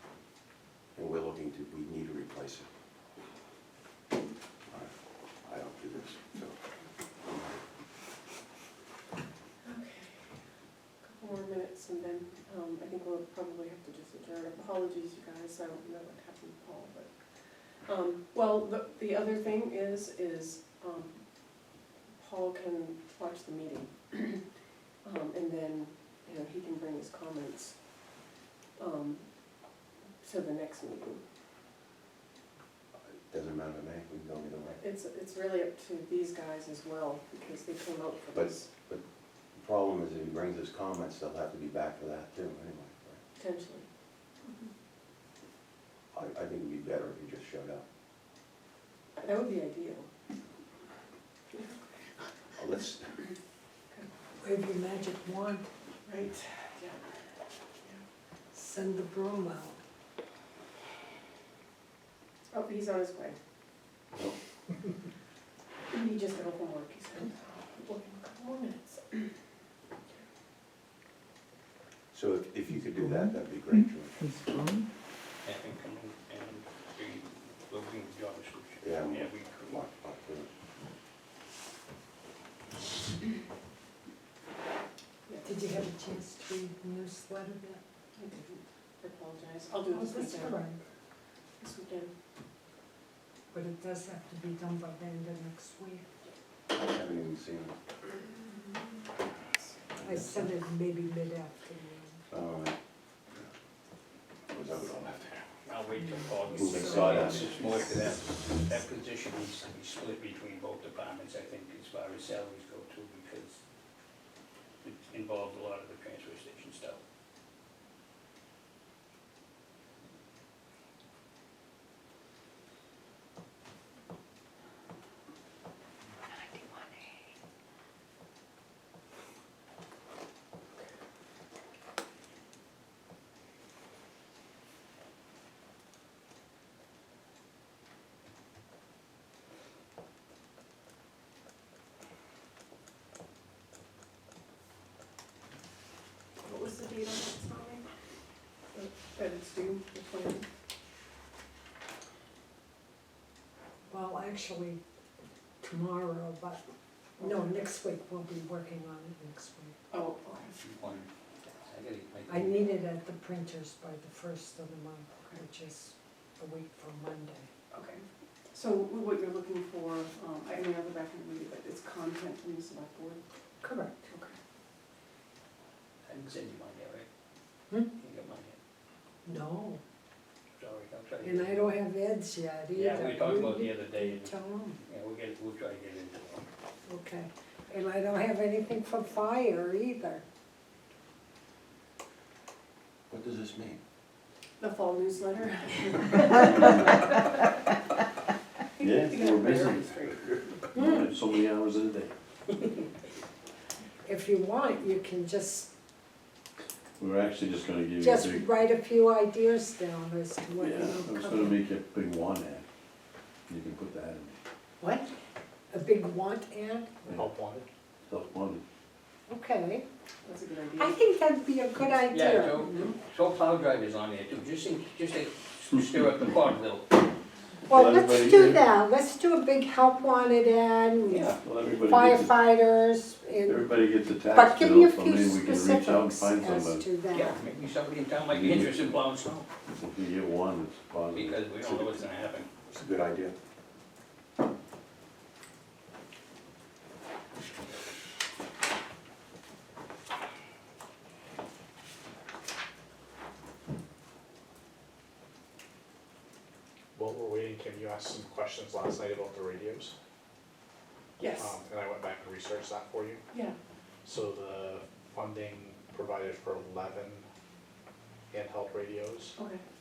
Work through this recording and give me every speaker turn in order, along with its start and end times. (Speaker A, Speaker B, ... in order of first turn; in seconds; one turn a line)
Speaker A: 0.9-2.7
Speaker A: 5.4-6.6
Speaker A: 7.2-7.5
Speaker B: 9.6-10.2
Speaker B: 11.0-17.1
Speaker B: 17.9-21.2
Speaker B: 22.1-24.4
Speaker B: 25.0-27.7
Speaker B: 28.8-29.2
Speaker B: 30.2-31.2
Speaker A: 33.3-34.8
Speaker B: 34.8-38.7
Speaker A: 38.3-39.0
Speaker A: 39.5-43.2
Speaker B: 43.4-43.9
Speaker A: 46.1-47.8
Speaker B: 49.2-50.1
Speaker B: 51.5-51.9
Speaker A: 52.5-53.1
Speaker C: 54.4-55.7
Speaker B: 56.0-57.0
Speaker C: 58.5-59.8
Speaker B: 62.5-63.4
Speaker B: 65.9-69.3
Speaker A: 72.1-74.6
Speaker D: 75.4-79.8
Speaker A: 78.8-80.5
Speaker B: 85.2-85.5
Speaker C: 85.4-87.8
Speaker B: 88.1-90.5
Speaker C: 89.9-90.8
Speaker B: 91.6-92.1
Speaker C: 93.5-96.0
Speaker A: 96.7-97.7
Speaker B: 98.5-99.6
Speaker A: 100.0-100.5
Speaker C: 100.0-102.2
Speaker A: 102.3-102.8
Speaker A: 104.5-105.4
Speaker D: 105.7-113.6
Speaker E: 106.5-107.3
Speaker A: 106.6-107.5
Speaker C: 106.8-107.0
Speaker D: 114.8-117.0
Speaker B: 146.4-147.8
Speaker B: 148.7-150.4
Speaker C: 153.9-154.8
Speaker C: 155.6-156.6
Speaker C: 157.2-159.7
Speaker B: 157.2-157.6
Speaker B: 159.9-160.6
Speaker D: 160.5-162.7
Speaker C: 162.3-167.5
Speaker B: 167.7-173.2
Speaker C: 173.6-174.0
Speaker B: 174.1-174.4
Speaker D: 176.0-177.1
Speaker D: 178.0-178.6
Speaker C: 179.2-179.8
Speaker D: 180.5-181.7
Speaker C: 181.2-184.8
Speaker D: 182.7-184.3
Speaker D: 184.9-186.4
Speaker C: 186.8-190.2
Speaker A: 193.1-193.8
Speaker B: 194.6-197.2
Speaker B: 198.8-200.5
Speaker E: 198.8-202.1
Speaker C: 200.7-201.1
Speaker C: 204.0-205.7
Speaker E: 207.0-208.5
Speaker C: 208.0-211.6
Speaker E: 210.6-212.6
Speaker E: 213.5-214.3
Speaker C: 215.7-217.0
Speaker F: 217.1-217.6
Speaker E: 218.1-218.6
Speaker C: 219.3-219.8
Speaker B: 220.2-220.9
Speaker C: 220.8-223.0
Speaker D: 222.1-227.0
Speaker C: 227.7-233.7
Speaker E: 227.7-228.6
Speaker D: 231.1-231.4
Speaker E: 231.4-232.4
Speaker E: 233.4-236.8
Speaker C: 234.3-237.4
Speaker D: 237.1-239.5
Speaker E: 238.3-238.8
Speaker E: 239.8-241.4
Speaker D: 241.1-242.5
Speaker A: 242.7-243.3
Speaker F: 256.9-259.9
Speaker B: 261.2-261.5
Speaker F: 261.4-263.2
Speaker F: 264.0-267.2
Speaker F: 268.3-269.4